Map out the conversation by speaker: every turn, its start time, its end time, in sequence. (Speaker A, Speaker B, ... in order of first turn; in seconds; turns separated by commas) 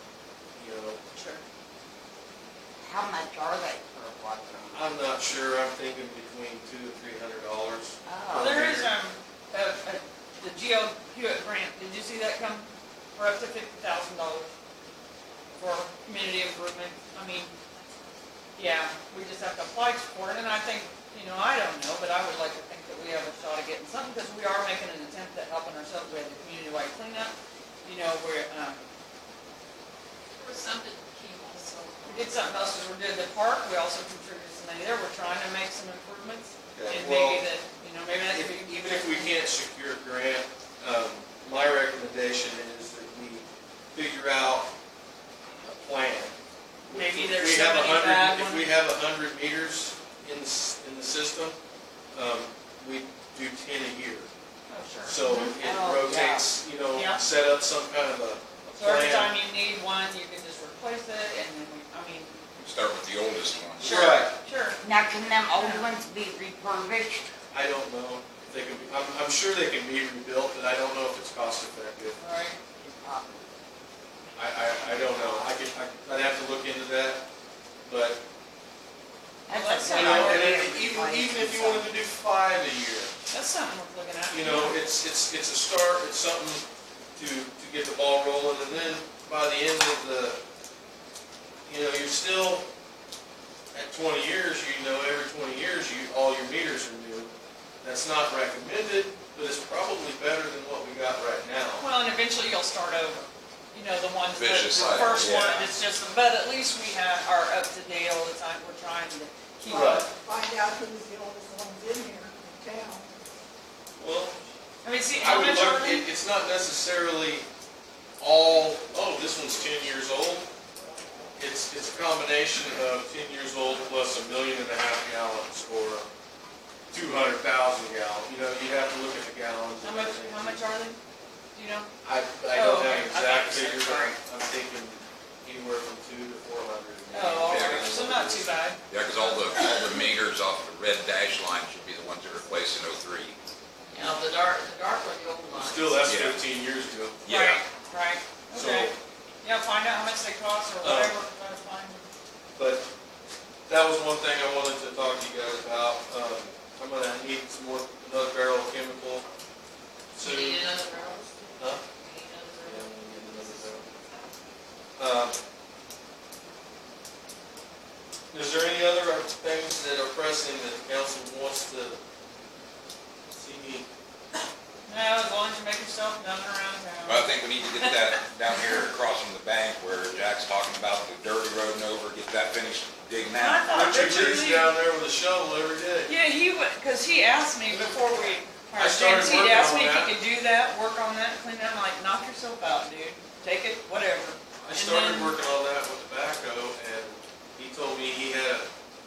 Speaker A: 0.5-1.0, Speaker B: 1.1-1.4, Speaker C: 2.8-4.9, Speaker A: 4.7-8.9, Speaker C: 8.0-8.6, Speaker B: 8.3-14.5, Speaker B: 15.5-17.5, Speaker B: 18.6-28.8, Speaker D: 30.3-32.5, Speaker B: 32.0-39.4, Speaker A: 36.7-37.4, Speaker A: 38.3-44.7, Speaker A: 45.6-46.3, Speaker B: 46.9-48.8, Speaker A: 46.9-51.6, Speaker A: 52.1-54.3, Speaker B: 54.7-55.2, Speaker A: 55.0-59.3, Speaker C: 55.2-56.5, Speaker B: 56.9-57.2, Speaker B: 58.8-62.4, Speaker E: 62.6-64.0, Speaker B: 63.8-64.8, Speaker A: 63.8-64.3, Speaker C: 64.8-67.3, Speaker B: 65.5-65.9, Speaker A: 67.5-72.2, Speaker B: 72.2-72.6, Speaker C: 72.8-73.5, Speaker A: 74.3-77.2, Speaker C: 74.9-75.5, Speaker A: 77.8-78.2, Speaker C: 79.5-82.0, Speaker B: 79.5-80.5, Speaker A: 79.9-83.1, Speaker B: 83.3-84.7, Speaker A: 84.3-86.6, Speaker A: 87.2-90.4, Speaker A: 91.7-92.7, Speaker A: 93.7-97.3, Speaker A: 97.8-101.8, Speaker B: 101.8-110.1, Speaker E: 104.3-105.7, Speaker A: 109.6-110.1, Speaker F: 109.7-113.1, Speaker A: 114.0-114.3, Speaker B: 114.8-116.1, Speaker A: 115.2-117.5, Speaker A: 118.2-120.5, Speaker A: 121.4-126.1, Speaker A: 126.9-130.6, Speaker B: 129.8-131.0, Speaker B: 131.5-131.9, Speaker A: 132.0-138.5, Speaker B: 132.4-134.2, Speaker B: 137.1-139.7, Speaker E: 137.4-137.9, Speaker E: 138.9-143.3, Speaker D: 143.9-146.1, Speaker A: 145.5-147.2, Speaker E: 146.0-146.4, Speaker E: 147.2-147.7, Speaker B: 147.2-148.9, Speaker A: 148.5-148.9, Speaker B: 149.4-152.0, Speaker A: 150.8-151.1, Speaker A: 152.5-152.9, Speaker A: 153.7-159.2, Speaker A: 160.1-160.7, Speaker D: 160.2-164.3, Speaker A: 161.6-161.8, Speaker A: 162.6-163.9, Speaker A: 165.0-165.4, Speaker A: 168.3-172.0, Speaker A: 173.3-173.8, Speaker B: 174.9-178.8, Speaker E: 177.0-183.7, Speaker B: 183.3-184.7, Speaker A: 183.7-186.1, Speaker B: 186.1-195.3, Speaker A: 188.8-190.2, Speaker A: 194.6-198.7